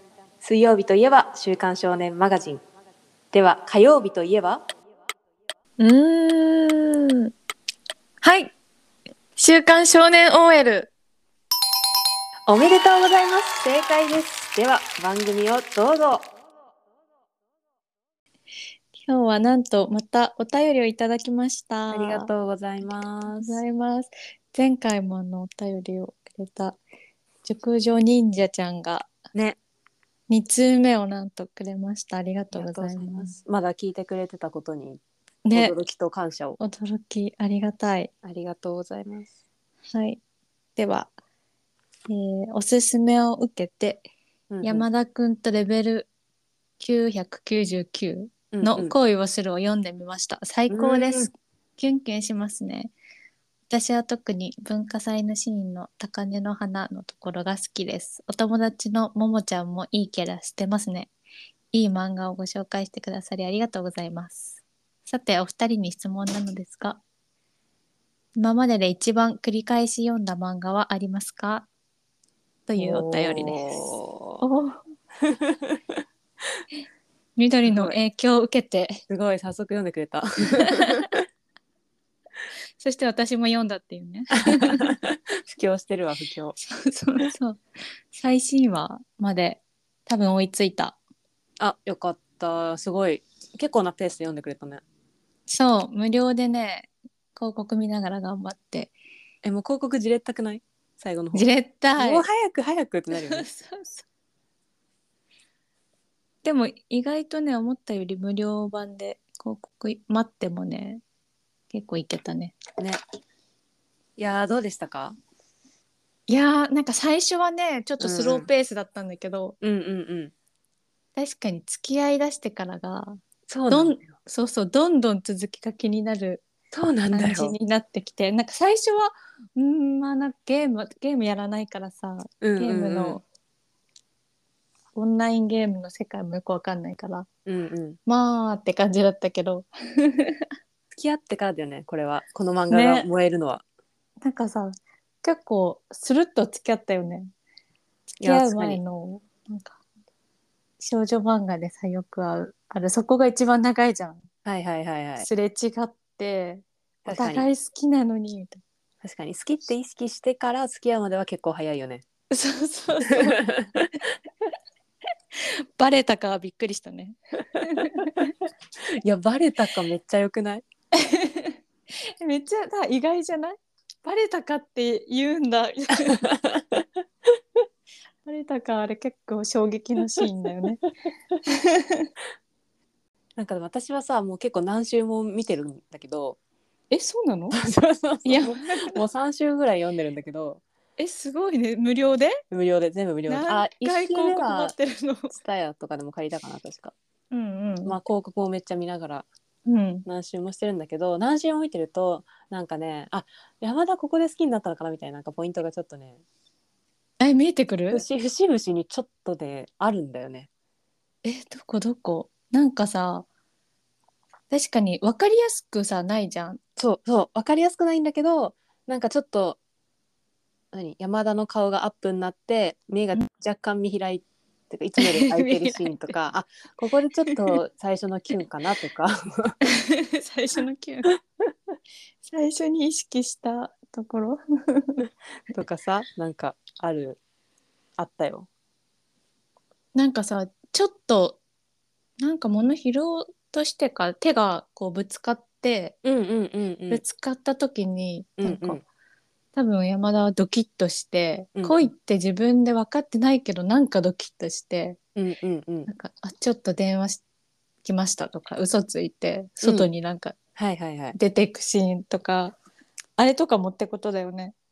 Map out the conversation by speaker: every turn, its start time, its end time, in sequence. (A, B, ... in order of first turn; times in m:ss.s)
0:00.4-0:02.6 A
0:03.3-0:04.6 A
0:05.8-0:07.3 B
0:08.2-0:08.5 B
0:09.4-0:10.9 B
0:12.5-0:16.3 A
0:19.0-0:22.3 B
0:21.9-0:23.6 A
0:23.3-0:26.8 B
0:27.4-0:29.1 B
0:30.3-0:33.4 B
0:32.5-0:35.0 A
0:35.5-0:35.8 B
0:35.5-0:36.6 A
0:36.6-0:38.1 B
0:38.2-0:39.3 A
0:39.9-0:40.2 B
0:40.8-0:41.1 B
0:42.1-0:44.1 B
0:44.5-0:44.9 A
0:44.6-0:46.1 B
0:46.8-0:52.9 B
0:48.5-0:48.9 A
0:50.7-0:51.3 A
0:53.7-1:01.1 B
1:01.7-1:07.0 B
1:08.4-1:11.7 B
1:12.7-1:13.8 B
1:12.8-1:14.4 A
1:14.4-1:14.8 B
1:15.3-1:15.8 A
1:17.4-1:19.0 B
1:17.6-1:18.0 A
1:19.1-1:21.2 A
1:22.8-1:24.9 B
1:24.7-1:26.6 A
1:26.8-1:27.6 B
1:28.1-1:31.0 B
1:31.6-1:34.8 A
1:35.5-1:39.0 B
1:39.4-1:43.5 A
1:41.3-1:42.3 B
1:43.2-1:44.0 B
1:46.4-1:51.0 B
1:51.7-1:52.6 B
1:54.2-1:55.2 A
1:56.3-1:59.6 B
1:58.0-1:58.5 A
1:59.6-2:00.3 A
2:01.2-2:06.4 B
2:03.5-2:04.0 A
2:06.7-2:07.6 A
2:07.1-2:13.2 B
2:12.4-2:13.2 A
2:15.0-2:17.3 B
2:17.5-2:18.0 A
2:18.1-2:20.5 B
2:21.0-2:23.6 A
2:22.7-2:23.1 B
2:24.2-2:27.3 B
2:28.2-2:28.8 A
2:28.2-2:29.8 B
2:30.8-2:34.2 B
2:34.4-2:35.3 A
2:35.2-2:38.6 B
2:37.0-2:37.5 A
2:39.0-2:42.0 A
2:42.3-2:43.5 B
2:43.4-2:43.9 A
2:45.8-2:48.3 B
2:49.0-2:50.6 A
2:51.0-2:51.6 B
2:52.2-2:56.2 B
2:56.5-2:56.8 A
2:58.2-3:00.8 B
3:01.5-3:02.1 B
3:03.4-3:06.4 A
3:06.9-3:07.6 B
3:07.5-3:10.6 A
3:08.2-3:09.0 B
3:11.0-3:12.4 B
3:12.5-3:14.8 A
3:13.3-3:15.3 B
3:15.3-3:16.9 A
3:17.3-3:18.0 B
3:17.9-3:19.3 A
3:19.7-3:20.1 B
3:20.1-3:26.2 A
3:27.2-3:28.0 B
3:27.9-3:30.5 A
3:31.2-3:33.3 B
3:34.5-3:36.6 B
3:36.8-3:39.6 A
3:40.7-3:49.6 A
3:45.0-3:46.0 B
3:49.8-3:51.1 B
3:52.2-3:55.0 B
3:55.5-3:57.2 A
3:58.0-3:58.5 A
4:00.0-4:01.4 B
4:02.2-4:06.0 B
4:06.0-4:07.0 A
4:06.9-4:08.8 B
4:08.4-4:08.8 A
4:09.6-4:15.0 B
4:11.6-4:11.9 A
4:15.2-4:15.9 A
4:15.9-4:17.2 B
4:17.8-4:20.4 B
4:19.6-4:19.9 A
4:20.6-4:21.2 A
4:21.2-4:22.6 B
4:23.2-4:24.6 B